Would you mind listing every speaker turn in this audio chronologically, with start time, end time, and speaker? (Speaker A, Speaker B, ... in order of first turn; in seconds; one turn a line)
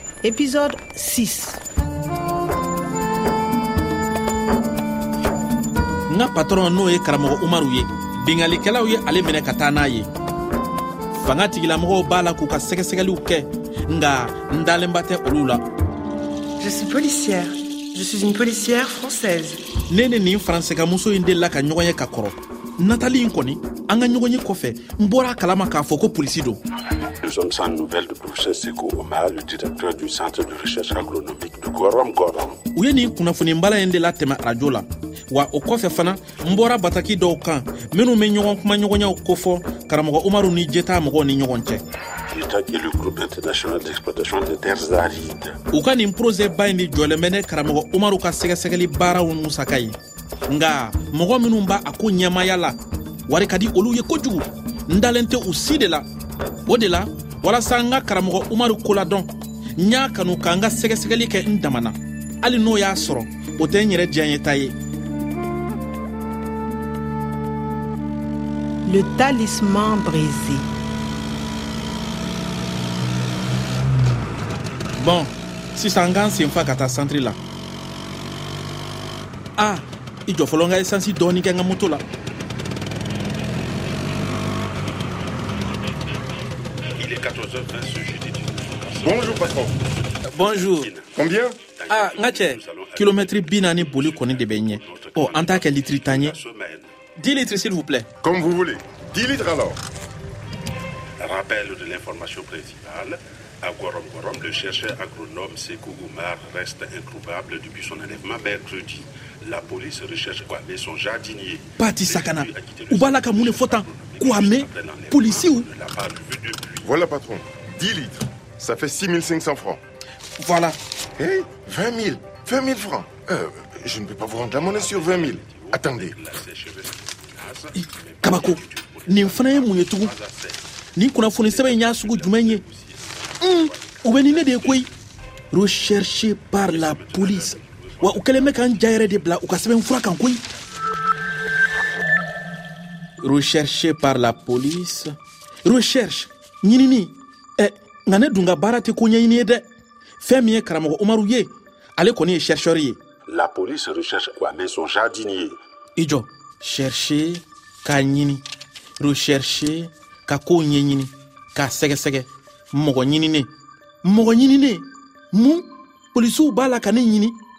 Speaker A: 0.2-1.6
Speaker B: 6.1-10.1
Speaker B: 11.1-15.7
Speaker C: 16.6-19.6
Speaker B: 19.9-26.6
Speaker D: 27.2-32.6
Speaker B: 32.7-41.8
Speaker D: 42.3-45.6
Speaker B: 45.7-50.0
Speaker B: 50.5-56.1
Speaker B: 56.7-64.8
Speaker A: 68.9-70.7
Speaker B: 75.0-77.4
Speaker B: 79.6-82.0
Speaker D: 87.0-89.7
Speaker E: 89.0-89.7
Speaker B: 90.3-90.9
Speaker D: 90.4-91.2
Speaker E: 91.2-91.6
Speaker D: 91.7-96.9
Speaker B: 91.9-96.4
Speaker B: 97.2-98.1
Speaker E: 98.2-99.8
Speaker D: 101.2-116.9
Speaker B: 111.8-115.7
Speaker E: 116.8-119.8
Speaker B: 120.4-120.8
Speaker E: 121.2-126.2
Speaker D: 124.7-130.6
Speaker B: 128.2-130.1
Speaker B: 131.0-132.6
Speaker D: 131.4-134.9
Speaker B: 133.4-134.9
Speaker B: 135.5-140.4
Speaker D: 136.7-138.5
Speaker B: 143.2-145.1
Speaker B: 145.7-149.7
Speaker B: 150.2-153.0
Speaker D: 153.3-155.6
Speaker B: 156.0-158.4
Speaker B: 159.0-163.5
Speaker B: 164.0-167.4